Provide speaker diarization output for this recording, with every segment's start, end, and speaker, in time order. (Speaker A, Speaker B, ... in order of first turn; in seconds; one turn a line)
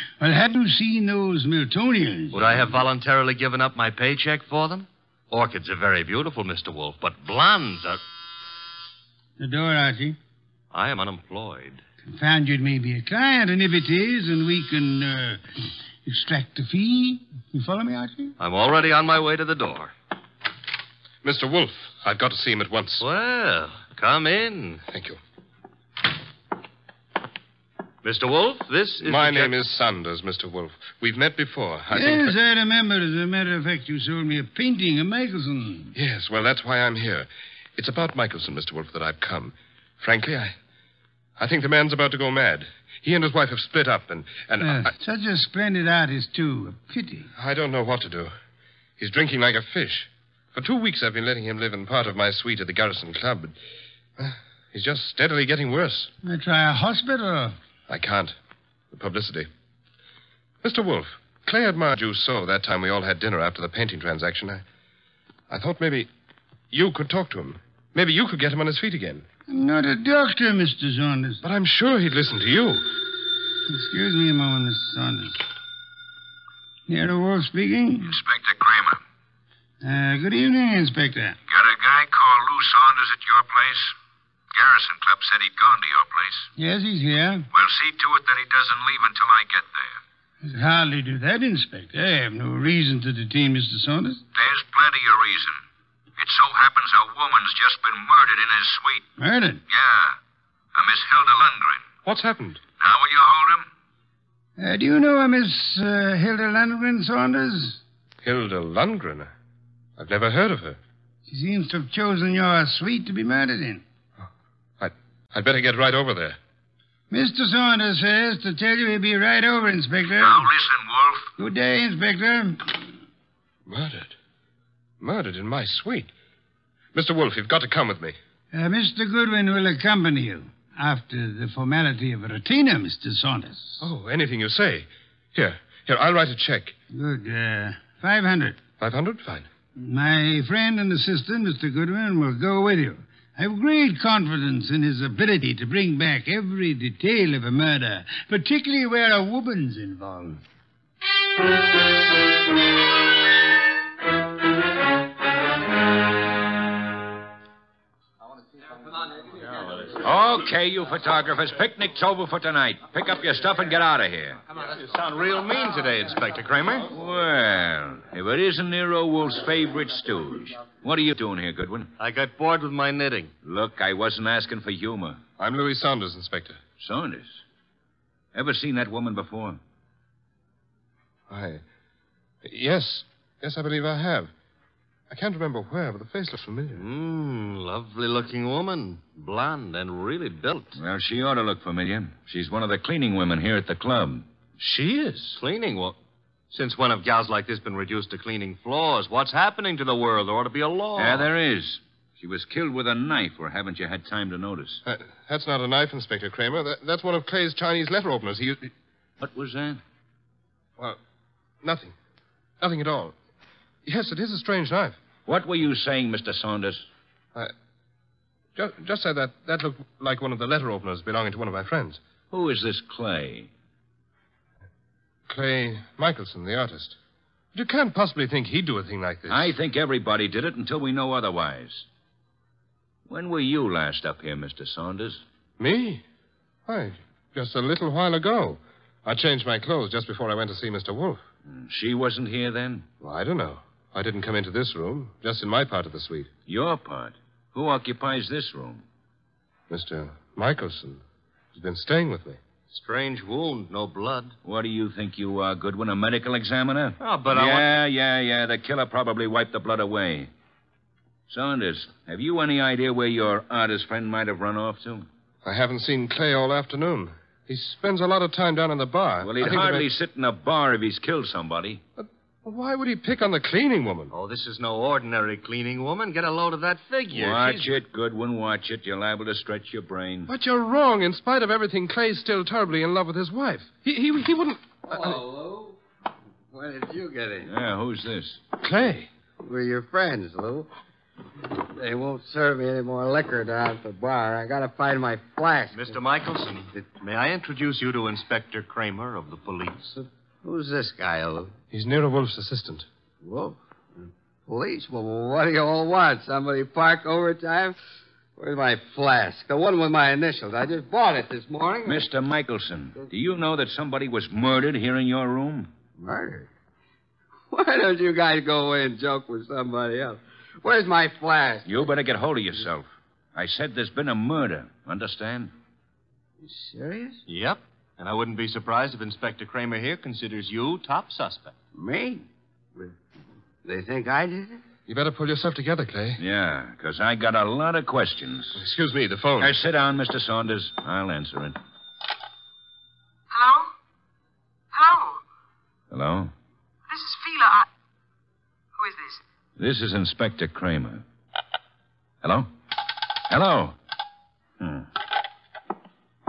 Speaker A: 0.2-2.8
Speaker B: 2.3-8.0
Speaker A: 9.4-10.2
Speaker B: 10.7-11.8
Speaker A: 12.1-15.4
Speaker A: 16.0-18.3
Speaker B: 18.4-19.9
Speaker C: 21.2-23.0
Speaker B: 23.0-24.8
Speaker C: 24.9-25.2
Speaker B: 28.0-29.6
Speaker C: 29.0-32.3
Speaker A: 31.9-35.9
Speaker C: 35.9-40.5
Speaker C: 41.4-44.9
Speaker A: 44.6-47.3
Speaker C: 47.4-48.3
Speaker C: 49.0-53.5
Speaker C: 54.2-56.1
Speaker A: 56.2-57.6
Speaker C: 57.9-58.4
Speaker C: 58.9-59.5
Speaker C: 60.6-64.6
Speaker C: 65.5-66.1
Speaker C: 66.7-69.2
Speaker A: 69.5-71.4
Speaker C: 71.4-72.9
Speaker A: 73.7-75.4
Speaker A: 76.9-78.2
Speaker D: 78.0-79.0
Speaker A: 79.8-81.4
Speaker D: 81.5-83.9
Speaker D: 84.5-86.5
Speaker A: 86.6-87.5
Speaker D: 87.5-90.0
Speaker A: 90.4-94.2
Speaker D: 94.3-95.6
Speaker D: 96.2-99.0
Speaker A: 99.2-99.6
Speaker D: 99.7-100.2
Speaker D: 100.7-101.9
Speaker C: 102.0-102.6
Speaker D: 102.8-103.7
Speaker A: 104.6-107.8
Speaker C: 108.2-109.3
Speaker C: 110.0-110.8
Speaker A: 111.3-113.8
Speaker C: 114.8-116.4
Speaker A: 117.1-120.5
Speaker D: 120.2-121.3
Speaker A: 121.4-122.9
Speaker C: 123.7-124.1
Speaker C: 125.0-126.1
Speaker C: 126.9-128.2
Speaker A: 128.5-133.8
Speaker C: 133.8-136.7
Speaker A: 136.9-138.6
Speaker C: 138.8-139.5
Speaker A: 139.8-150.4
Speaker B: 159.4-159.9
Speaker D: 159.9-164.4
Speaker B: 164.5-166.9
Speaker D: 166.9-171.9
Speaker B: 172.0-173.3
Speaker D: 173.4-175.2
Speaker C: 175.4-176.6
Speaker D: 176.8-177.4
Speaker D: 178.3-179.6
Speaker C: 181.3-181.6
Speaker C: 182.4-184.3
Speaker C: 185.1-186.8
Speaker B: 186.8-190.8
Speaker D: 190.7-194.2
Speaker B: 194.6-195.9
Speaker B: 196.5-201.3
Speaker D: 201.0-204.8
Speaker C: 204.8-208.7
Speaker D: 209.2-209.8
Speaker C: 211.6-211.9
Speaker C: 212.6-213.1
Speaker C: 213.8-215.0
Speaker D: 215.2-216.8
Speaker C: 218.6-222.0
Speaker D: 222.3-223.5
Speaker C: 225.3-227.0
Speaker C: 227.5-229.5
Speaker D: 229.3-231.8
Speaker D: 233.1-235.2
Speaker C: 235.6-236.0
Speaker C: 236.7-241.2
Speaker D: 241.5-242.8
Speaker C: 243.0-246.3
Speaker D: 246.5-248.8
Speaker C: 249.7-251.0
Speaker C: 251.5-252.4
Speaker B: 252.7-254.3
Speaker D: 254.4-260.3
Speaker B: 257.0-257.8
Speaker D: 261.3-265.1
Speaker C: 265.4-269.9
Speaker D: 269.2-271.8
Speaker C: 272.0-274.1
Speaker B: 274.1-277.8
Speaker D: 277.1-280.3
Speaker C: 280.3-285.0
Speaker E: 284.9-285.8
Speaker E: 286.5-287.5
Speaker D: 287.4-288.4
Speaker C: 288.6-289.1
Speaker E: 289.4-290.7
Speaker E: 291.5-295.9
Speaker B: 295.7-299.9
Speaker E: 299.9-301.5
Speaker C: 301.7-302.9
Speaker E: 303.2-303.6
Speaker E: 304.5-307.7
Speaker E: 308.4-312.1
Speaker D: 311.8-315.7
Speaker E: 316.0-316.5
Speaker E: 317.5-321.7
Speaker D: 321.6-325.5
Speaker E: 326.4-327.2
Speaker B: 327.3-331.5
Speaker E: 331.7-332.2
Speaker E: 333.6-334.6
Speaker C: 334.9-336.2
Speaker D: 336.2-338.6
Speaker C: 338.6-339.5
Speaker D: 339.4-341.6
Speaker F: 343.3-343.7
Speaker F: 344.7-345.2
Speaker D: 345.9-346.3
Speaker F: 346.9-347.7
Speaker F: 348.8-349.2
Speaker D: 349.6-351.0
Speaker D: 352.2-352.5
Speaker D: 353.3-353.7
Speaker D: 354.6-354.9